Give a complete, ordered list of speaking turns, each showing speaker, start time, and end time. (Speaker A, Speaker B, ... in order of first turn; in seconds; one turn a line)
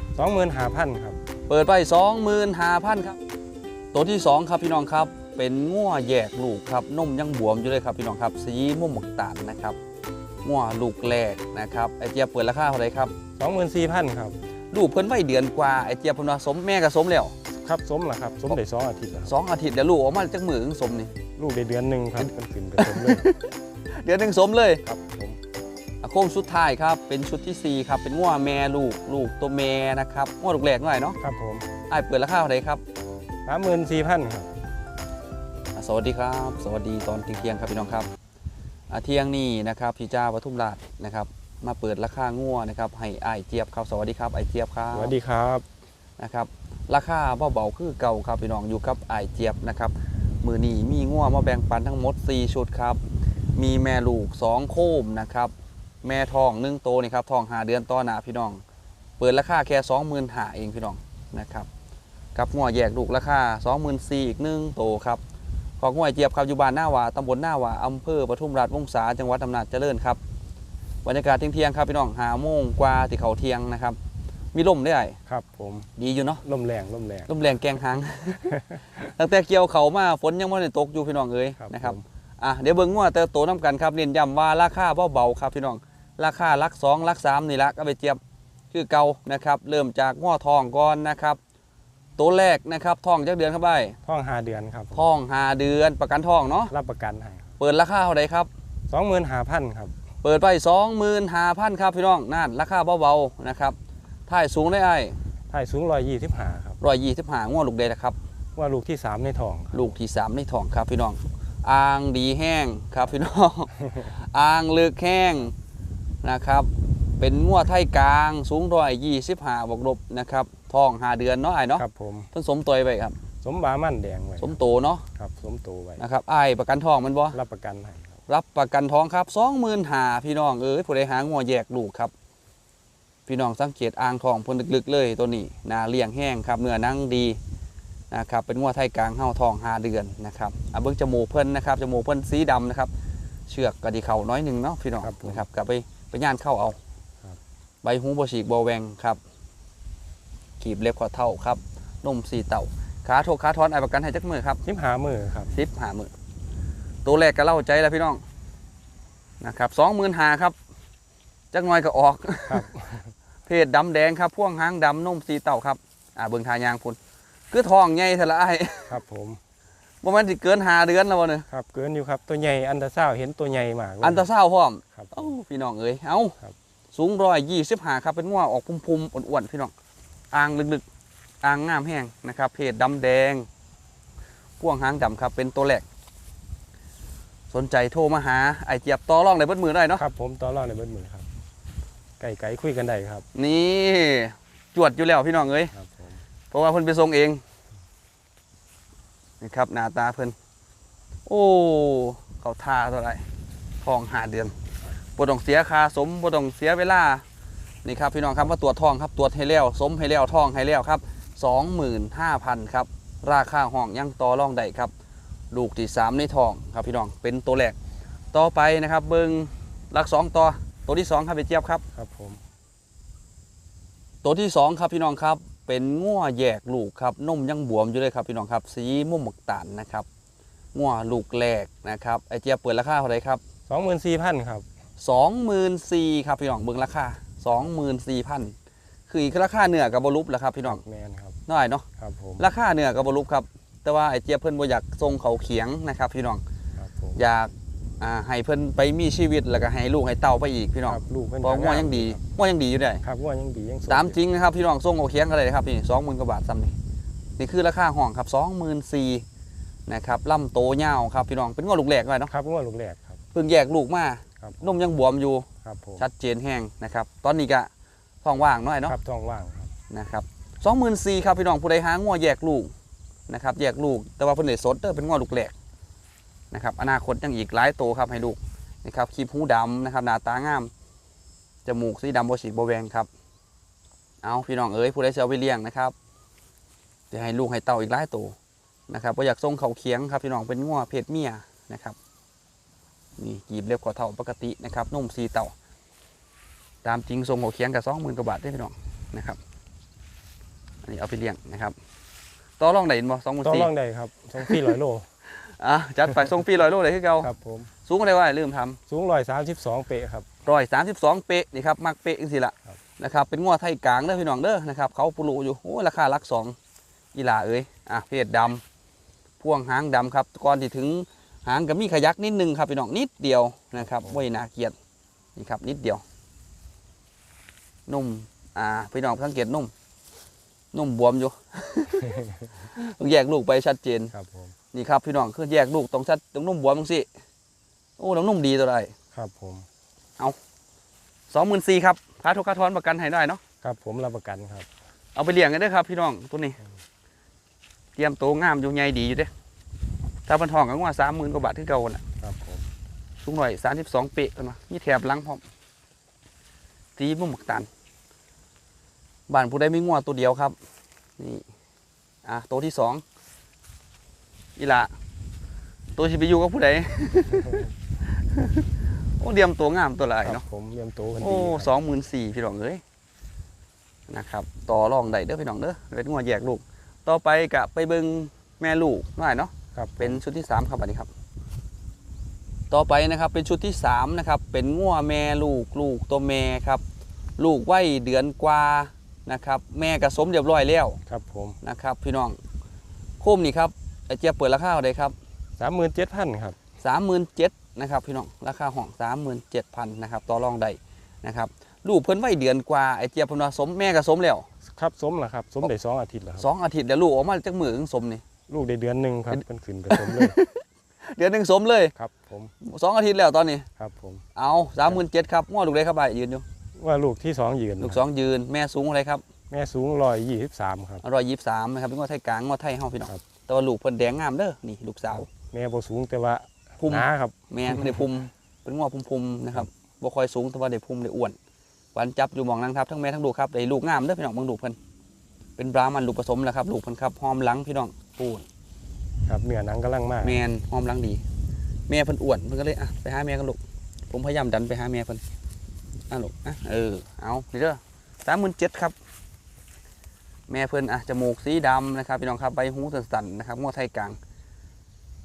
Speaker A: 0.1-1.2
Speaker B: 1.5-3.2
Speaker B: 3.9-9.8
Speaker B: 10.4-13.1
Speaker A: 13.4-14.4
Speaker B: 14.7-17.3
Speaker A: 17.6-19.3
Speaker B: 19.3-21.1
Speaker A: 21.4-23.3
Speaker B: 22.2-24.8
Speaker A: 24.8-25.4
Speaker B: 26.0-31.2
Speaker A: 31.2-31.7
Speaker B: 31.9-32.8
Speaker A: 33.5-34.5
Speaker B: 35.7-38.1
Speaker B: 38.9-45.1
Speaker A: 44.9-45.6
Speaker B: 46.2-53.0
Speaker B: 53.5-55.5
Speaker B: 56.0-58.6
Speaker B: 59.2-61.7
Speaker B: 62.3-65.2
Speaker B: 65.8-70.2
Speaker B: 71.0-74.0
Speaker B: 74.5-75.2
Speaker A: 75.3-75.9
Speaker B: 76.0-76.4
Speaker A: 76.4-77.3
Speaker B: 77.3-88.2
Speaker A: 78.4-78.9
Speaker A: 81.6-82.0
Speaker B: 88.7-91.4
Speaker B: 92.2-94.0
Speaker A: 94.0-95.1
Speaker B: 94.9-96.7
Speaker A: 96.7-97.5
Speaker B: 97.6-98.5
Speaker A: 98.9-99.9
Speaker B: 100.2-103.8
Speaker B: 104.3-105.2
Speaker A: 105.5-106.8
Speaker B: 106.8-108.2
Speaker A: 108.5-109.8
Speaker B: 109.7-115.5
Speaker A: 113.8-114.1
Speaker B: 116.2-123.2
Speaker A: 121.8-122.3
Speaker A: 123.4-124.6
Speaker B: 124.4-125.0
Speaker A: 125.1-126.0
Speaker B: 126.0-127.4
Speaker A: 127.3-128.2
Speaker B: 128.3-132.1
Speaker B: 133.3-137.4
Speaker B: 138.1-142.9
Speaker B: 143.5-146.8
Speaker A: 145.0-145.4
Speaker B: 147.8-149.2
Speaker B: 150.6-154.6
Speaker A: 154.6-155.5
Speaker B: 155.5-156.1
Speaker B: 157.0-158.2
Speaker B: 159.4-160.6
Speaker B: 161.5-162.7
Speaker A: 162.5-163.1
Speaker B: 163.5-167.0
Speaker B: 167.5-169.0
Speaker A: 168.9-169.4
Speaker B: 170.0-171.4
Speaker A: 171.5-174.2
Speaker B: 174.0-176.4
Speaker A: 174.9-175.3
Speaker B: 176.9-179.7
Speaker B: 180.3-180.8
Speaker B: 181.4-183.5
Speaker B: 184.6-185.8
Speaker B: 187.5-190.0
Speaker A: 190.0-191.3
Speaker A: 192.2-193.2
Speaker B: 193.3-195.7
Speaker A: 195.7-196.2
Speaker B: 196.5-197.4
Speaker B: 199.4-200.3
Speaker B: 201.2-203.2
Speaker B: 203.8-204.5
Speaker B: 205.2-207.2
Speaker B: 207.8-214.9
Speaker B: 215.5-217.8
Speaker B: 218.3-221.8
Speaker A: 221.9-222.4
Speaker B: 224.2-230.1
Speaker B: 230.7-233.4
Speaker A: 233.7-234.7
Speaker B: 235.0-238.5
Speaker B: 239.1-240.8
Speaker A: 240.7-241.4
Speaker B: 241.5-241.8
Speaker A: 242.0-242.4
Speaker B: 242.4-246.4
Speaker A: 246.8-247.2
Speaker B: 247.2-253.0
Speaker A: 250.9-252.2
Speaker A: 253.0-254.2
Speaker B: 253.9-256.7
Speaker B: 257.4-259.2
Speaker B: 259.9-262.3
Speaker A: 262.3-263.2
Speaker B: 263.3-265.5
Speaker A: 264.4-264.7
Speaker A: 265.6-266.1
Speaker B: 266.0-267.7
Speaker B: 268.2-268.9
Speaker A: 268.9-269.7
Speaker B: 269.9-272.7
Speaker B: 273.3-275.5
Speaker B: 276.5-280.7
Speaker B: 281.6-283.1
Speaker B: 284.2-285.9
Speaker B: 287.1-288.3
Speaker B: 288.9-291.9
Speaker B: 293.2-295.5
Speaker B: 296.8-299.4
Speaker B: 300.8-301.7
Speaker B: 302.6-303.7
Speaker A: 303.4-305.1
Speaker B: 304.4-304.7
Speaker B: 305.4-307.3
Speaker A: 307.2-307.7
Speaker B: 307.8-308.8
Speaker A: 308.9-310.3
Speaker B: 310.4-316.6
Speaker B: 317.1-318.6
Speaker B: 319.4-324.7
Speaker A: 323.8-324.2
Speaker B: 325.4-326.0
Speaker B: 327.9-329.7
Speaker B: 330.7-334.1
Speaker A: 332.1-332.5
Speaker A: 334.1-334.5
Speaker B: 334.7-337.1
Speaker B: 338.0-338.9
Speaker A: 339.1-339.7
Speaker B: 341.3-343.4
Speaker A: 343.6-344.7
Speaker B: 345.1-346.6
Speaker B: 347.9-349.3
Speaker B: 350.3-352.0
Speaker A: 352.2-352.7
Speaker B: 353.2-355.4
Speaker B: 357.0-357.7
Speaker B: 359.3-360.6
Speaker B: 361.2-361.4
Speaker B: 362.2-363.0
Speaker B: 364.6-364.9
Speaker B: 366.0-368.7
Speaker B: 369.2-370.4
Speaker A: 370.2-371.8
Speaker B: 371.2-372.8
Speaker B: 374.1-381.1
Speaker A: 379.7-380.2
Speaker B: 382.7-386.8
Speaker B: 387.4-391.0
Speaker A: 391.1-391.6
Speaker B: 391.6-392.4
Speaker B: 393.2-395.1
Speaker A: 395.6-396.6
Speaker B: 396.8-404.5
Speaker A: 404.6-406.5
Speaker B: 406.4-408.2
Speaker A: 408.5-410.4
Speaker B: 409.3-411.9
Speaker A: 411.9-412.5
Speaker B: 412.6-413.7
Speaker A: 413.8-414.2
Speaker B: 414.4-416.4
Speaker A: 416.8-418.0
Speaker B: 417.8-419.2
Speaker A: 419.5-421.0
Speaker B: 421.0-425.3
Speaker A: 425.2-428.1
Speaker B: 426.8-431.4
Speaker B: 431.9-434.8
Speaker B: 435.6-438.4
Speaker A: 439.3-440.4
Speaker B: 440.2-441.2
Speaker B: 441.9-443.6
Speaker B: 444.1-445.2
Speaker B: 446.1-448.9
Speaker B: 450.5-454.2